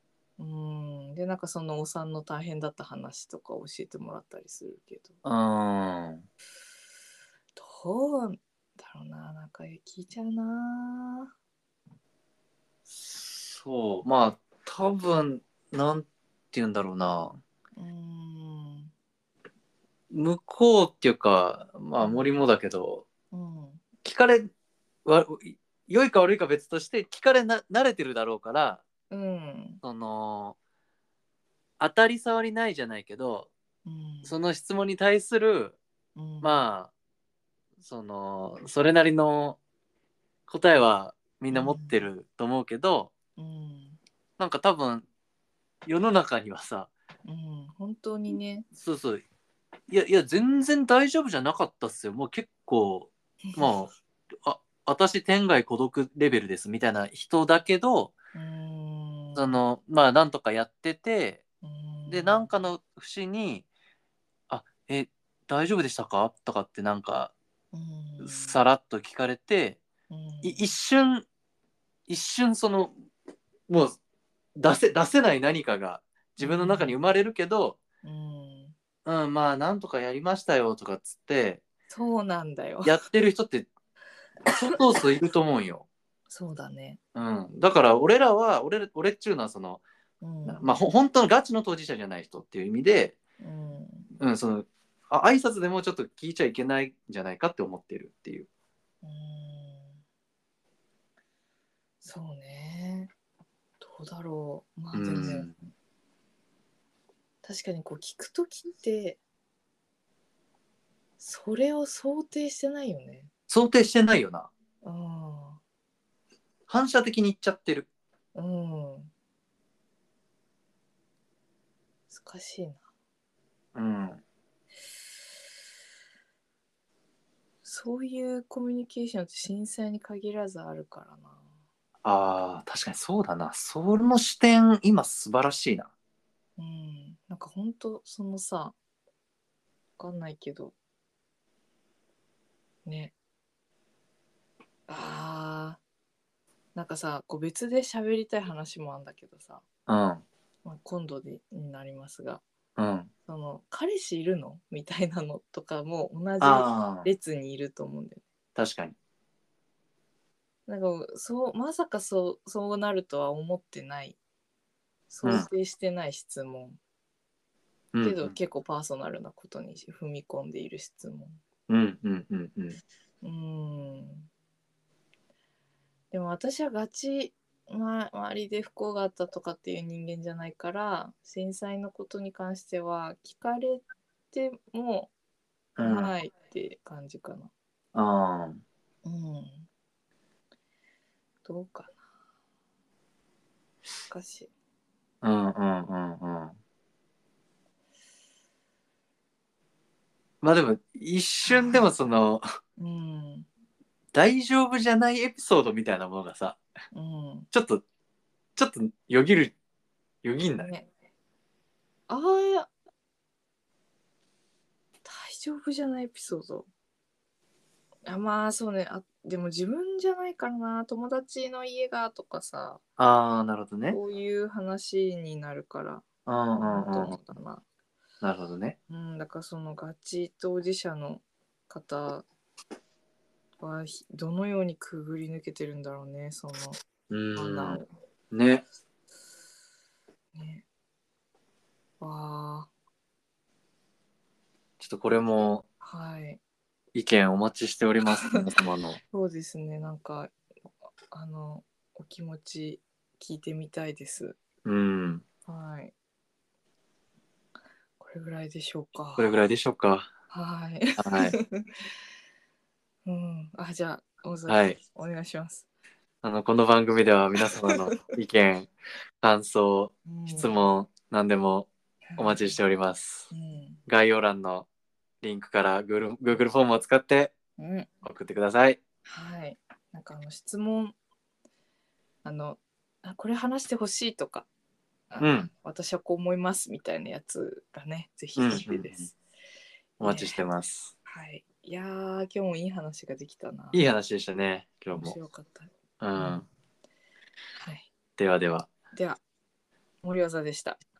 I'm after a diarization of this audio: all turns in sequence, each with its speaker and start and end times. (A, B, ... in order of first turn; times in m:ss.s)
0:00.4-0:05.1 A
0:05.2-0:06.2 B
0:07.6-0:11.3 A
0:12.9-0:17.4 B
0:17.8-0:18.9 A
0:20.1-0:23.0 B
0:22.0-0:22.3 A
0:23.3-0:23.8 A
0:24.0-0:24.5 B
0:25.0-0:28.8 B
0:29.1-0:29.8 A
0:29.8-0:30.6 B
0:31.8-0:33.5 B
0:33.8-0:34.3 A
0:34.2-0:35.8 B
0:36.2-0:36.6 A
0:36.4-0:36.9 B
0:37.8-0:39.6 B
0:40.5-0:43.1 B
0:41.5-0:42.1 A
0:43.4-0:44.0 A
0:44.4-0:45.0 B
0:45.8-0:46.9 B
0:47.2-0:48.7 A
0:48.8-0:49.2 B
0:49.9-0:58.1 B
0:53.4-0:53.7 A
0:58.3-0:59.6 A
0:59.4-1:01.4 B
1:01.6-1:02.5 A
1:02.1-1:03.6 B
1:04.5-1:07.3 B
1:07.7-1:08.6 A
1:08.2-1:09.8 B
1:10.1-1:10.7 A
1:10.4-1:11.2 B
1:12.1-1:12.9 B
1:13.7-1:14.0 B
1:14.6-1:17.8 B
1:16.4-1:17.0 A
1:18.0-1:18.8 A
1:19.0-1:21.6 B
1:21.9-1:23.0 A
1:22.8-1:23.7 B
1:24.4-1:25.8 B
1:26.3-1:27.0 A
1:27.1-1:29.8 B
1:30.2-1:30.8 A
1:30.4-1:33.2 B
1:33.4-1:34.1 A
1:34.2-1:38.5 B
1:39.0-1:40.0 A
1:42.0-1:43.1 A
1:43.8-1:45.5 A
1:44.9-1:45.5 B
1:47.4-1:49.2 A
1:51.2-1:53.3 A
1:53.5-1:54.5 B
1:54.8-1:55.6 A
1:56.7-1:57.9 B
1:58.3-1:59.1 A
2:02.1-2:02.8 A
2:03.7-2:04.2 B
2:07.6-2:11.4 A
2:12.0-2:15.9 B
2:16.6-2:18.7 A
2:20.0-2:20.7 A
2:22.8-2:23.1 A
2:24.9-2:25.8 A
2:26.7-2:29.6 A
2:29.9-2:30.2 B
2:30.6-2:32.4 A
2:32.8-2:33.1 B
2:33.2-2:38.2 A
2:36.4-2:37.1 B
2:38.6-2:39.0 B
2:40.7-2:44.2 A
2:45.1-2:46.8 A
2:45.2-2:45.5 B
2:47.9-2:48.3 B
2:48.0-2:51.4 A
2:51.7-2:52.8 B
2:53.2-2:54.3 A
2:56.1-3:05.1 A
3:05.8-3:06.1 B
3:05.8-3:07.5 A
3:07.9-3:08.6 B
3:09.0-3:09.7 A
3:11.4-3:12.0 A
3:14.1-3:14.5 A
3:15.2-3:16.6 B
3:20.4-3:22.4 B
3:21.4-3:21.9 A
3:22.8-3:23.5 A
3:24.1-3:26.6 B
3:26.9-3:27.5 A
3:27.5-3:27.8 B
3:28.6-3:29.5 B
3:30.2-3:30.7 B
3:30.6-3:30.9 A
3:32.1-3:32.7 A
3:35.0-3:36.7 A
3:38.1-3:42.8 A
3:43.0-3:44.0 B
3:43.9-3:46.0 A
3:46.2-3:47.2 B
3:46.6-3:47.6 A
3:48.2-3:48.8 B
3:48.9-3:52.2 A
3:53.6-3:56.8 A
3:57.1-3:57.8 B
3:57.3-3:57.9 A
3:58.3-3:58.6 B
4:00.3-4:00.6 A
4:02.0-4:02.7 A
4:04.8-4:05.6 B
4:05.8-4:06.4 A
4:06.9-4:09.0 B
4:09.1-4:10.3 A
4:11.1-4:14.4 A
4:14.6-4:15.2 B
4:15.4-4:15.9 A
4:18.0-4:19.4 A
4:19.2-4:20.1 B
4:20.3-4:21.7 A
4:21.0-4:21.4 B
4:23.0-4:25.6 A
4:24.5-4:24.8 B
4:26.2-4:28.7 B
4:27.4-4:28.0 A
4:29.2-4:33.3 B
4:30.0-4:30.5 A
4:32.1-4:32.6 A
4:33.3-4:33.8 A
4:33.9-4:34.7 B
4:35.2-4:37.3 B
4:37.6-4:37.9 A
4:38.0-4:38.8 B
4:39.0-4:41.0 A
4:42.2-4:44.5 A
4:45.1-4:49.1 A
4:45.2-4:45.5 B
4:48.4-4:49.1 B
4:50.0-4:50.9 B
4:50.0-4:50.4 A
4:51.0-4:53.8 A
4:53.7-4:55.2 B
4:54.9-4:56.4 A
4:56.0-4:56.4 B
4:57.6-4:57.9 A
4:58.2-4:58.7 B
4:58.9-4:59.2 A
5:00.0-5:00.8 A